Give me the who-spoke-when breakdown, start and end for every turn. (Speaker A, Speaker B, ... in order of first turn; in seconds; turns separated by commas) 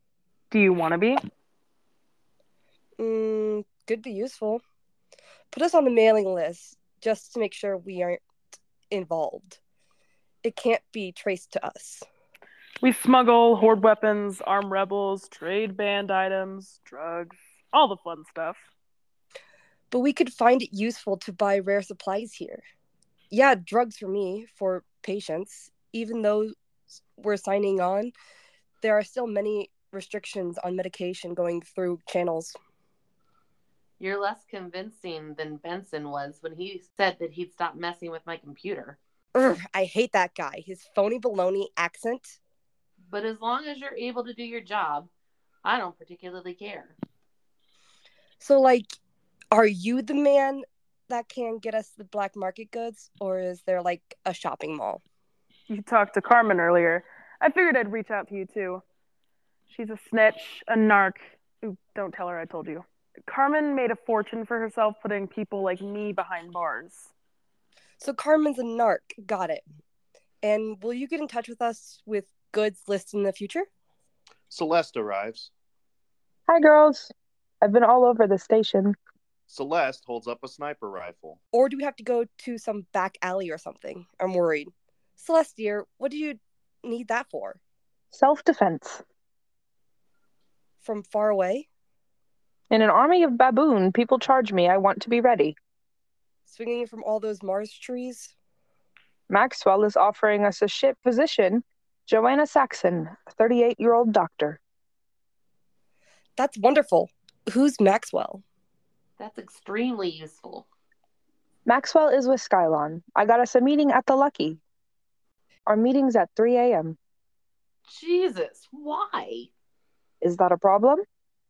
Speaker A: 0.5-1.2, Speaker B: 3.0-4.6, Speaker B: 5.5-8.2, Speaker B: 8.9-9.6, Speaker B: 10.4-12.0, Speaker A: 12.8-18.6, Speaker B: 19.9-22.6, Speaker B: 23.3-26.5, Speaker B: 27.1-28.1, Speaker B: 28.8-32.5, Speaker C: 34.0-39.0, Speaker B: 39.3-42.4, Speaker C: 43.0-45.1, Speaker C: 45.6-47.0, Speaker B: 48.4-48.9, Speaker B: 49.5-55.0, Speaker A: 55.7-58.8, Speaker A: 59.7-67.1, Speaker B: 68.0-69.6, Speaker B: 70.4-73.7, Speaker D: 74.5-75.5, Speaker E: 76.5-79.0, Speaker D: 79.5-81.4, Speaker B: 81.5-87.6, Speaker E: 88.1-89.0, Speaker B: 90.8-91.7, Speaker E: 92.7-95.5, Speaker B: 96.5-98.3, Speaker E: 99.3-104.6, Speaker B: 106.3-108.4, Speaker C: 109.2-110.7, Speaker E: 111.7-114.6, Speaker E: 115.7-117.0, Speaker C: 117.9-119.5, Speaker E: 120.2-121.0